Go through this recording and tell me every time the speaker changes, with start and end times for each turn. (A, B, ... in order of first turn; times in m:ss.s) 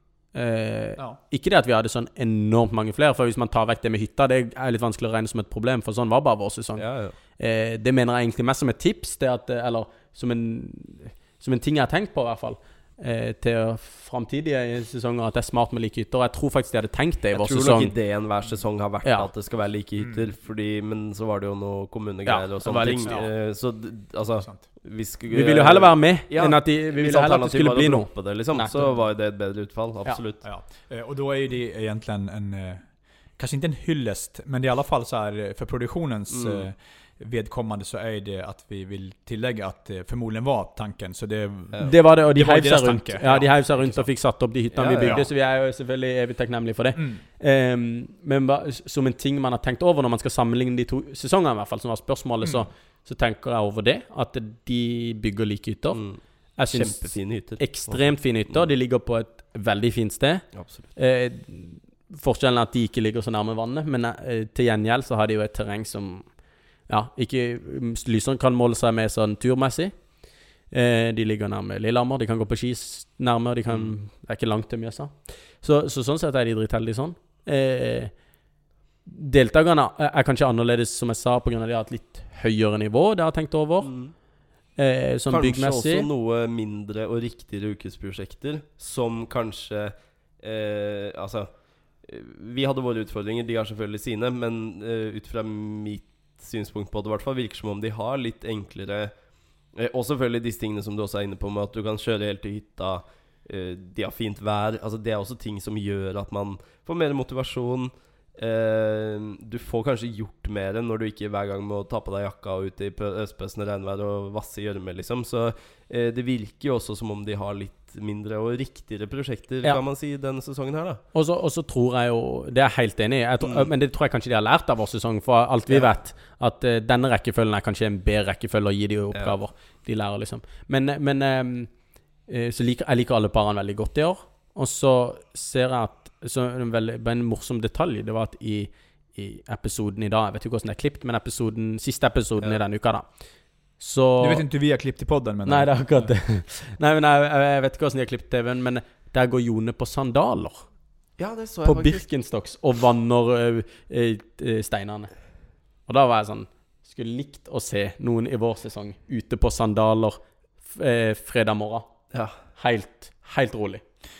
0:00.3-0:06.8 A
0:06.8-0:07.2 B
0:07.4-0:17.9 A
0:17.3-0:30.4 B
0:19.0-0:19.3 A
0:20.0-0:20.3 C
0:22.2-0:23.2 A
0:23.0-0:23.3 C
0:25.3-0:28.9 A
0:30.4-0:44.2 C
0:36.3-0:36.6 B
0:41.8-0:56.0 A
0:44.8-0:45.2 B
0:45.0-0:45.3 C
0:46.9-0:47.2 C
0:52.4-0:52.7 C
0:55.9-0:58.7 B
0:56.6-1:10.0 A
1:00.5-1:00.9 B
1:10.7-1:18.1 A
1:19.0-1:24.0 A
1:23.8-1:24.1 B
1:24.8-1:26.1 A
1:25.3-1:39.1 B
1:39.7-2:01.0 B
2:01.1-2:11.7 A
2:03.4-2:03.7 B
2:12.3-2:23.1 A
2:23.8-2:24.4 A
2:24.2-2:26.1 C
2:25.4-2:30.7 A
2:31.2-2:32.0 B
2:31.6-2:35.1 A
2:35.9-2:41.9 A
2:42.4-2:43.8 A